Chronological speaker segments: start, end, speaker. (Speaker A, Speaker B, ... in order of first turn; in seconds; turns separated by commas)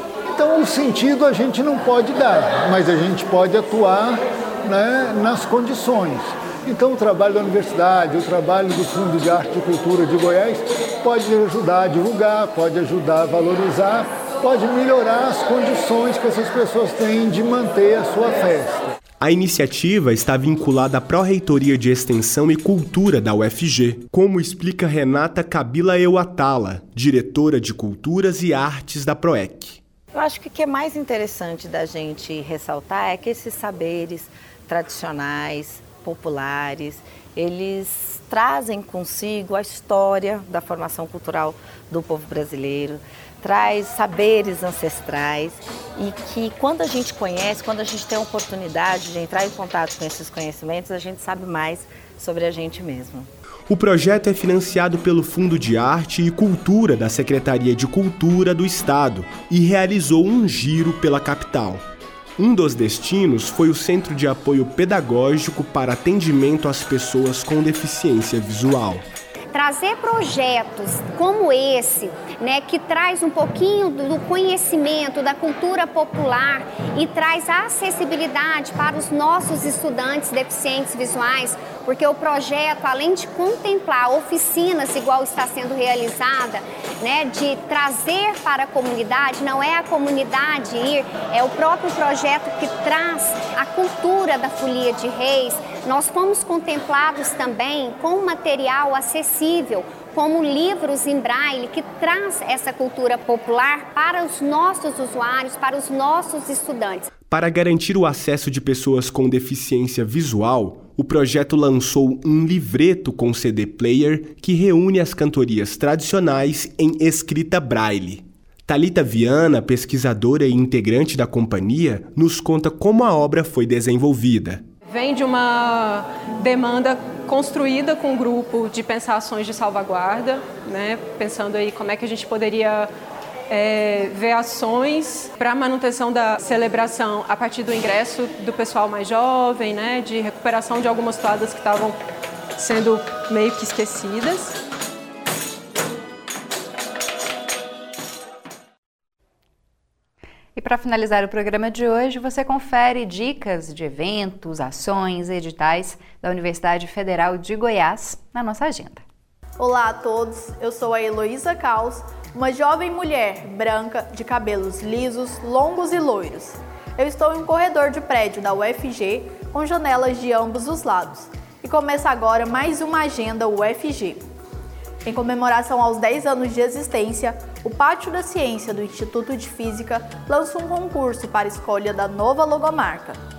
Speaker A: 0.3-18.8, Speaker B: 19.2-29.8, Speaker C: 30.1-53.3, Speaker B: 53.7-61.8, Speaker B: 62.4-69.0, Speaker D: 69.5-107.1, Speaker B: 107.2-124.6, Speaker E: 124.8-132.9, Speaker E: 133.5-142.0, Speaker E: 142.6-144.6, Speaker F: 150.6-159.0, Speaker G: 159.6-174.2, Speaker G: 175.0-183.2